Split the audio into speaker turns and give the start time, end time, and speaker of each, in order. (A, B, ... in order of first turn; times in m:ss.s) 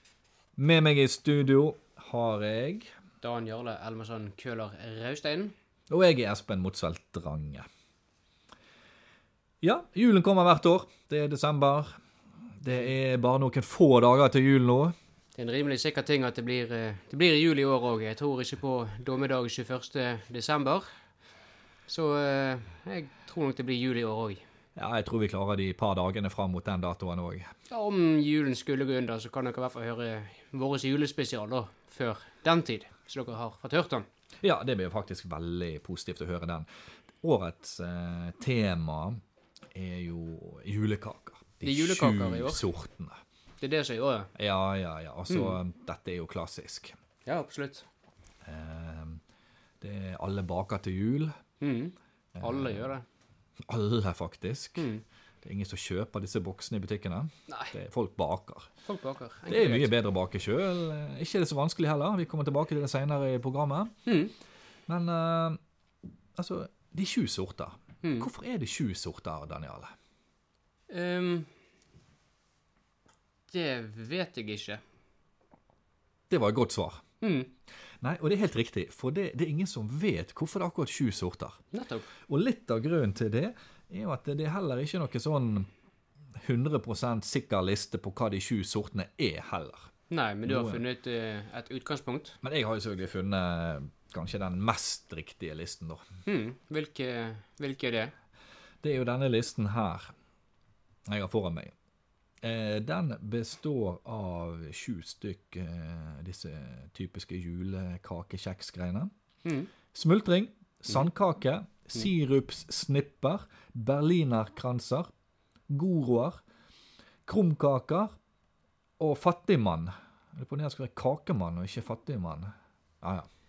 0:00.6-0:02.9 A
0:03.2-0:05.5 B
0:05.9-0:07.6 A
0:09.6-0:12.0 A
0:12.6-0:14.9 A
0:15.4-0:20.8 B
0:21.9-0:24.4 B
0:24.8-0:27.4 A
0:27.7-0:34.0 B
0:34.4-0:36.7 A
0:37.2-0:39.2 A
0:39.7-0:43.2 A
0:41.6-0:42.7 B
0:43.6-0:44.3 B
0:44.4-0:46.9 A
0:45.3-0:45.6 B
0:47.2-0:47.9 B
0:48.4-0:49.2 A
0:49.8-0:51.4 A
0:51.6-0:53.0 B
0:52.4-0:53.0 A
0:53.7-0:54.9 A
0:54.8-0:55.0 B
0:55.4-0:58.7 A
0:57.5-0:57.7 B
0:58.8-0:59.9 B
0:59.5-1:03.9 A
1:04.0-1:04.3 B
1:04.9-1:05.6 A
1:06.4-1:09.9 A
1:08.0-1:08.3 B
1:10.9-1:11.5 B
1:13.5-1:14.8 B
1:16.3-1:17.0 A
1:17.2-1:17.5 B
1:18.0-1:21.6 A
1:21.7-1:22.1 B
1:22.3-1:25.7 A
1:26.4-1:29.9 A
1:30.1-1:32.4 B
1:30.4-1:30.8 A
1:32.4-1:36.0 A
1:36.2-1:38.1 B
1:38.8-1:40.1 A
1:41.1-1:41.7 A
1:42.4-1:49.1 A
1:49.4-1:49.7 B
1:49.9-1:55.1 A
1:55.7-1:56.4 A
1:57.2-1:58.1 A
1:59.0-2:02.5 A
2:03.0-2:03.3 A